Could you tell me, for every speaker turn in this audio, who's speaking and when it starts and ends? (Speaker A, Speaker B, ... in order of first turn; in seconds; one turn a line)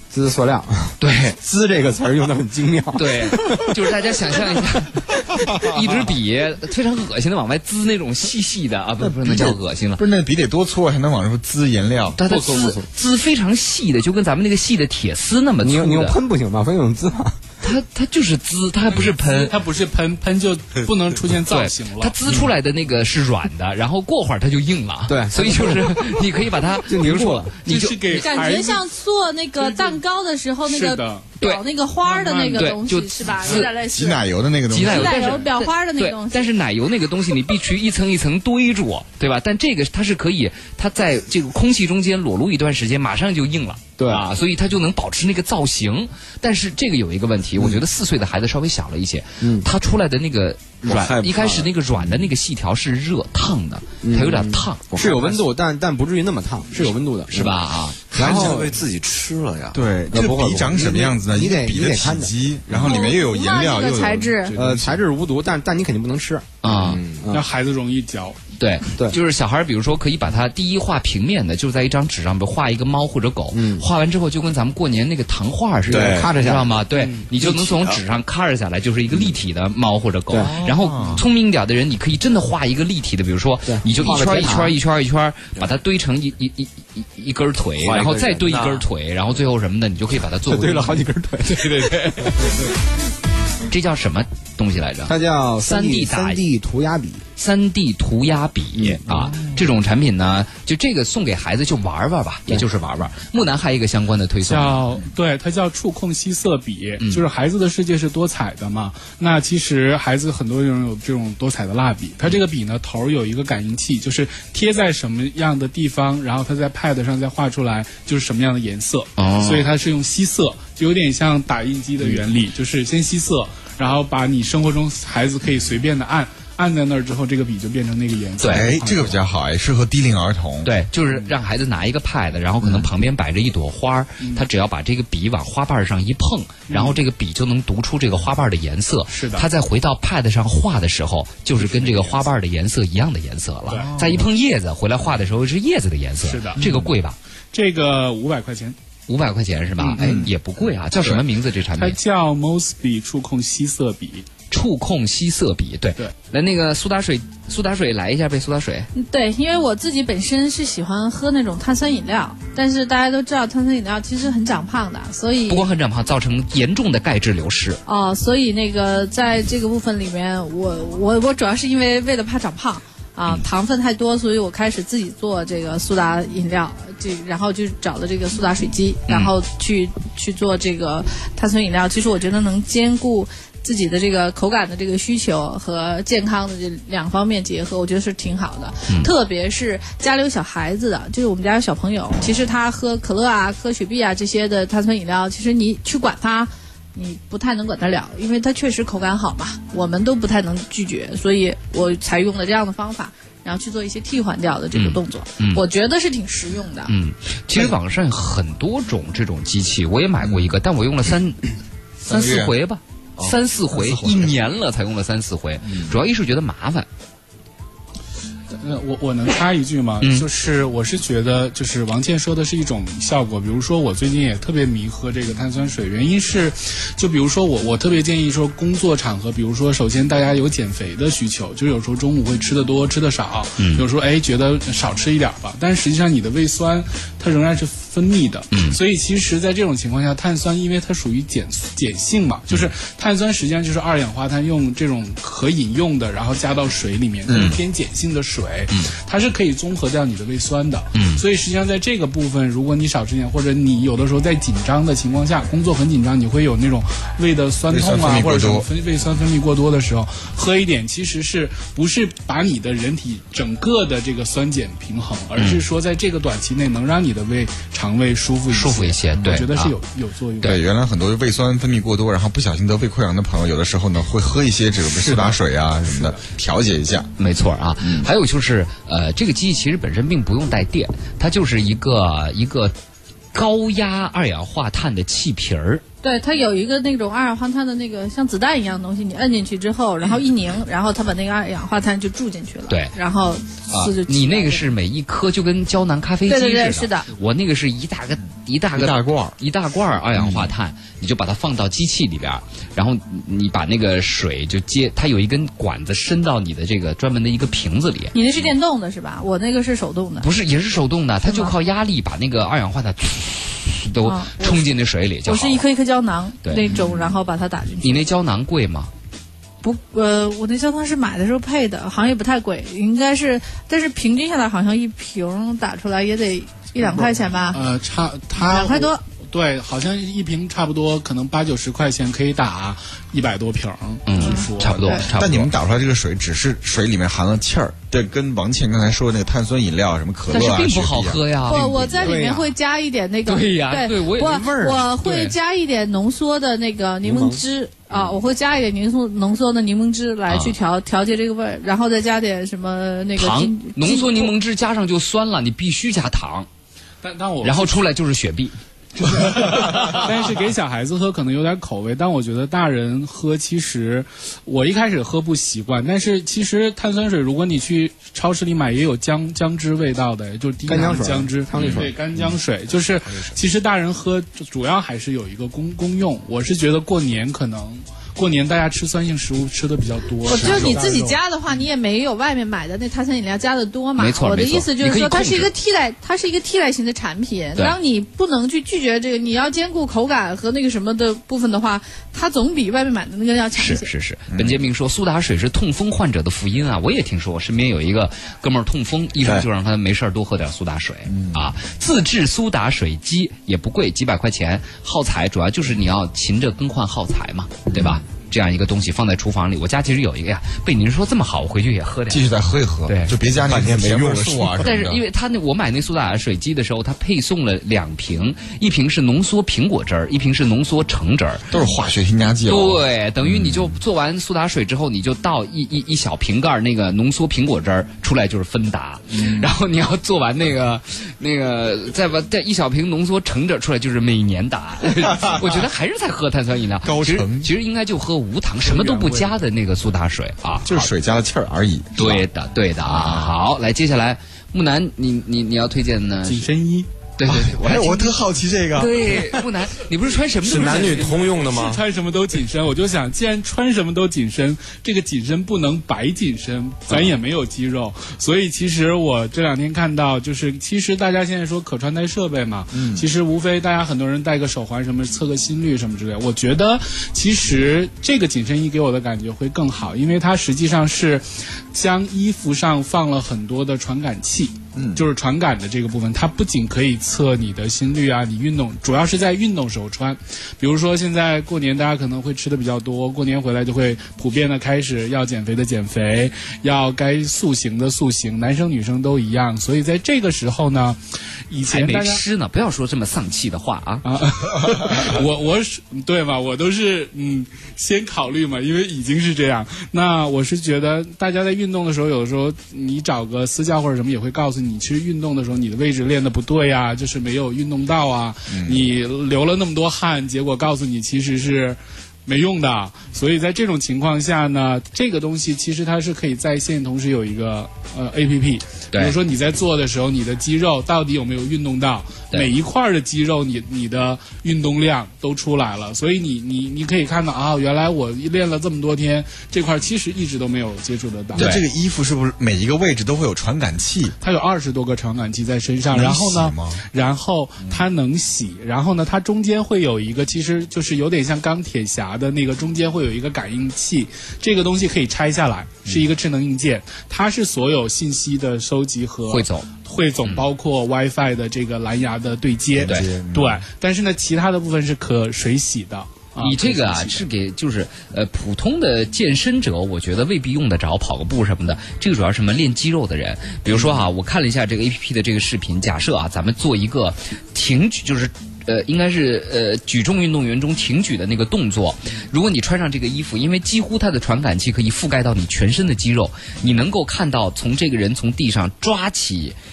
Speaker A: 0.1-4.7
Speaker B: 1.0-1.4
Speaker B: 2.9-10.0
Speaker C: 9.0-12.2
Speaker B: 12.2-16.2
Speaker A: 12.2-12.8
Speaker A: 15.6-17.4
Speaker B: 17.6-19.5
Speaker D: 18.9-22.1
Speaker B: 21.5-28.0
Speaker A: 25.1-26.2
Speaker A: 26.9-27.5
Speaker D: 27.6-28.8
Speaker E: 28.1-36.5
Speaker D: 29.6-30.0
Speaker D: 30.7-31.3
Speaker D: 32.0-32.8
Speaker B: 32.5-33.7
Speaker C: 33.4-35.5
Speaker B: 34.7-55.0
Speaker A: 44.0-44.2
Speaker A: 49.4-49.7
Speaker F: 50.8-51.7
Speaker A: 54.0-57.6
Speaker F: 54.9-55.4
Speaker B: 57.3-58.1
Speaker F: 58.1-59.8
Speaker A: 58.1-58.8
Speaker C: 59.7-64.4
Speaker A: 60.1-62.3
Speaker E: 62.8-64.6
Speaker D: 64.5-64.9
Speaker A: 64.5-67.4
Speaker B: 66.6-67.0
Speaker F: 66.9-67.2
Speaker D: 67.3-68.4
Speaker B: 68.6-91.0
Speaker A: 73.5-73.8
Speaker A: 75.9-76.8
Speaker F: 75.9-76.3
Speaker F: 77.4-78.0
Speaker C: 80.3-81.2
Speaker A: 83.7-84.8
Speaker F: 87.8-88.8
Speaker A: 90.5-92.5
Speaker B: 91.6-92.0
Speaker B: 93.7-96.4
Speaker A: 95.0-97.2
Speaker B: 97.4-104.8
Speaker D: 104.4-129.2
Speaker B: 119.2-119.7
Speaker B: 128.4-128.7
Speaker C: 128.4-130.7
Speaker B: 130.6-147.2
Speaker D: 131.1-131.3
Speaker C: 132.6-132.9
Speaker D: 136.7-137.0
Speaker D: 139.1-139.5
Speaker D: 141.6-142.2
Speaker D: 143.7-144.2
Speaker C: 143.8-144.2
Speaker D: 146.2-146.6
Speaker C: 146.6-146.9
Speaker D: 147.5-148.8
Speaker B: 149.1-152.0
Speaker D: 149.8-150.2
Speaker C: 149.9-150.3
Speaker D: 151.8-154.3
Speaker B: 154.5-158.9
Speaker E: 158.9-165.7
Speaker B: 165.5-167.8
Speaker E: 167.8-206.9
Speaker B: 179.1-179.3
Speaker B: 204.7-205.6
Speaker B: 206.9-211.5
Speaker C: 210.2-210.5
Speaker B: 212.0-216.9
Speaker C: 212.1-212.5
Speaker C: 213.2-214.3
Speaker C: 215.6-215.9
Speaker D: 218.5-270.6
Speaker B: 220.0-220.2
Speaker B: 233.6-233.8
Speaker B: 238.5-238.8
Speaker C: 247.3-247.6
Speaker B: 250.9-251.2
Speaker C: 257.7-258.7
Speaker B: 265.4-265.6
Speaker B: 268.5-269.7
Speaker C: 270.4-277.1
Speaker D: 274.9-276.2
Speaker B: 277.2-282.7
Speaker C: 277.8-278.1
Speaker B: 283.3-285.8
Speaker E: 286.0-294.7
Speaker B: 292.7-292.9
Speaker B: 293.7-308.1
Speaker E: 296.3-297.1
Speaker C: 298.8-299.4
Speaker C: 300.1-300.5
Speaker E: 308.1-310.3
Speaker B: 310.2-315.6
Speaker E: 311.2-311.5
Speaker E: 314.0-314.7
Speaker E: 315.2-318.0
Speaker B: 316.4-316.8
Speaker C: 316.6-317.1
Speaker B: 317.8-318.9
Speaker E: 319.6-327.6
Speaker D: 326.8-334.9
Speaker E: 328.4-329.0
Speaker B: 334.1-335.5
Speaker E: 334.2-335.1
Speaker C: 334.6-342.1
Speaker B: 340.3-341.8
Speaker E: 341.5-354.3
Speaker A: 342.0-342.5
Speaker B: 343.2-345.3
Speaker A: 344.2-344.9
Speaker A: 347.0-347.4
Speaker B: 350.3-350.5
Speaker B: 353.2-356.5
Speaker D: 357.0-357.9
Speaker B: 357.4-358.6
Speaker D: 359.0-381.2
Speaker A: 370.6-371.9
Speaker C: 371.6-372.2
Speaker E: 380.2-393.9
Speaker B: 384.0-385.5
Speaker B: 393.6-412.3
Speaker C: 394.3-394.6
Speaker C: 401.1-401.5
Speaker C: 407.7-408.0
Speaker C: 412.1-415.0
Speaker B: 412.9-413.6
Speaker F: 413.5-414.5
Speaker B: 414.4-421.6
Speaker C: 421.5-423.8
Speaker B: 422.4-440.9
Speaker C: 429.1-429.5
Speaker C: 435.0-435.6
Speaker C: 436.8-437.5
Speaker C: 440.6-442.2
Speaker B: 442.0-446.5
Speaker C: 442.8-443.3
Speaker D: 446.2-446.9
Speaker B: 447.2-448.1
Speaker C: 447.2-449.4
Speaker B: 448.7-451.2
Speaker F: 450.4-451.8
Speaker D: 450.6-492.2
Speaker C: 462.7-463.1
Speaker C: 474.8-475.0
Speaker B: 491.7-494.1
Speaker D: 494.0-531.6
Speaker C: 508.5-508.9
Speaker B: 531.3-531.6
Speaker C: 531.3-534.1
Speaker D: 534.2-557.3
Speaker C: 535.9-536.8
Speaker B: 549.3-549.7
Speaker C: 552.7-553.6
Speaker B: 556.4-579.5